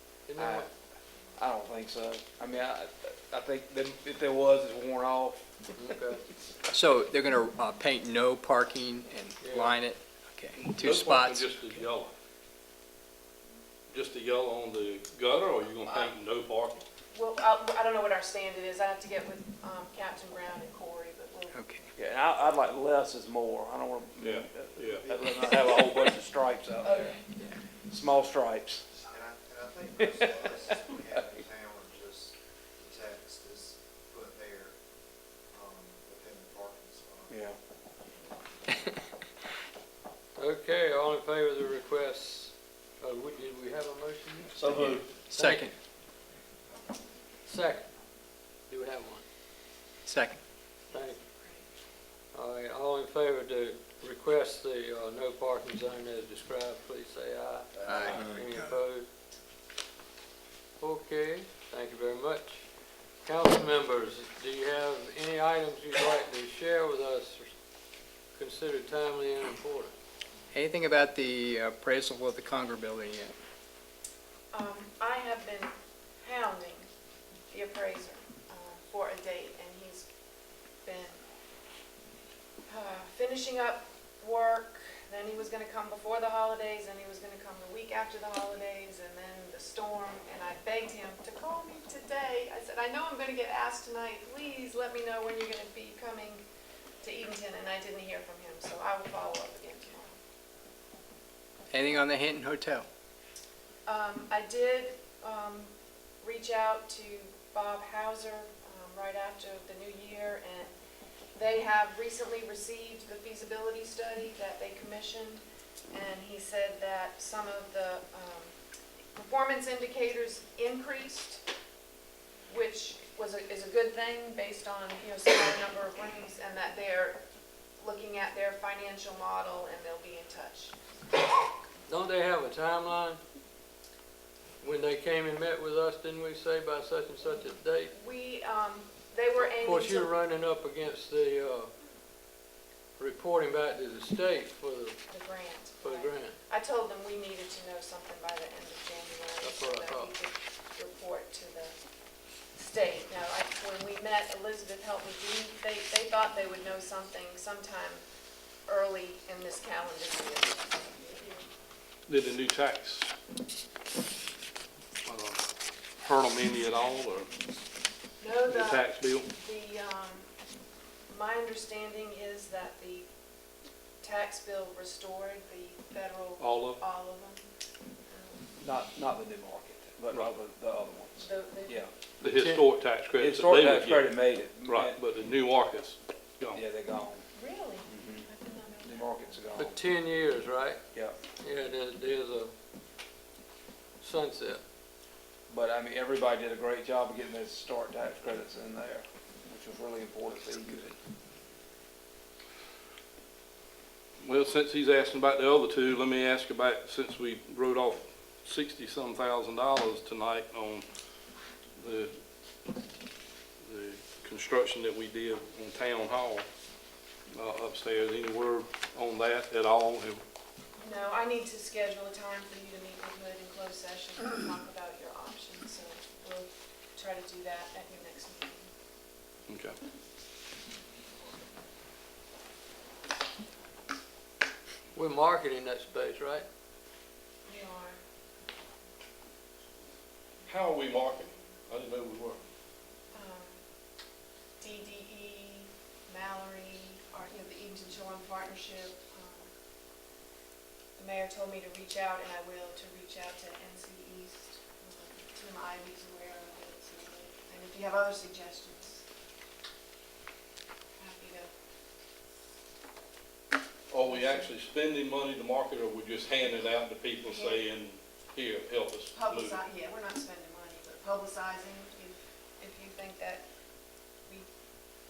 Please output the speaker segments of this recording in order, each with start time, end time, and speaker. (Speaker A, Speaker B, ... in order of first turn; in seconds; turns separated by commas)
Speaker A: 0.3-0.7, Speaker B: 0.4-0.7, Speaker B: 1.4-5.5, Speaker A: 5.8-6.2, Speaker C: 6.7-11.7, Speaker A: 9.4-9.8, Speaker D: 10.8-12.1, Speaker D: 13.9-16.8, Speaker E: 17.1-21.6, Speaker C: 21.5-21.9, Speaker B: 22.0-27.2, Speaker D: 24.2-25.1, Speaker E: 26.8-27.2, Speaker B: 27.9-28.8, Speaker F: 29.1-34.7, Speaker F: 35.5-37.2, Speaker B: 37.3-37.6, Speaker A: 40.4-45.7, Speaker D: 44.6-45.0, Speaker C: 45.3-45.8, Speaker A: 47.5-47.9, Speaker A: 48.7-49.2, Speaker C: 50.1-50.4, Speaker A: 50.9-51.2, Speaker A: 52.3-59.1, Speaker C: 57.9-58.4, Speaker A: 60.8-62.6, Speaker A: 63.2-67.5, Speaker A: 68.3-69.9, Speaker C: 70.5-73.4, Speaker E: 74.5-76.9, Speaker E: 77.5-80.1, Speaker E: 80.8-81.2, Speaker E: 82.7-96.5, Speaker E: 97.0-100.2, Speaker C: 101.7-102.9, Speaker E: 103.9-110.7, Speaker E: 111.3-118.5, Speaker E: 119.2-121.4, Speaker E: 122.5-127.2, Speaker E: 127.8-130.8, Speaker A: 131.9-133.2, Speaker A: 134.6-137.9, Speaker E: 137.2-140.1, Speaker A: 139.4-141.7, Speaker A: 143.0-145.1, Speaker E: 145.1-151.8, Speaker A: 145.8-146.4, Speaker A: 149.4-150.1, Speaker E: 152.6-158.0, Speaker E: 158.7-161.5, Speaker D: 162.1-163.1, Speaker D: 165.1-165.4, Speaker D: 166.0-167.3, Speaker E: 168.2-170.3, Speaker D: 168.5-169.3, Speaker E: 171.1-173.1, Speaker E: 174.0-177.4, Speaker D: 176.4-176.8, Speaker E: 178.1-178.5, Speaker B: 178.6-181.9, Speaker E: 181.2-181.8, Speaker D: 182.2-186.6, Speaker A: 182.2-182.7, Speaker B: 183.2-185.0, Speaker B: 186.5-187.2, Speaker E: 187.3-189.4, Speaker B: 187.9-188.3, Speaker B: 188.8-189.8, Speaker A: 189.6-190.8, Speaker A: 191.4-192.5, Speaker A: 194.0-194.6, Speaker B: 195.5-201.0, Speaker D: 204.2-210.8, Speaker D: 211.8-212.1, Speaker D: 213.7-216.5, Speaker D: 217.3-220.2, Speaker E: 220.8-228.7, Speaker D: 229.5-229.8, Speaker A: 234.9-236.5, Speaker E: 237.5-238.0, Speaker D: 240.5-242.4, Speaker E: 243.1-243.6, Speaker E: 244.6-249.5, Speaker E: 251.0-259.0, Speaker E: 261.0-261.5, Speaker D: 263.9-269.6, Speaker E: 267.3-267.6, Speaker E: 269.1-273.4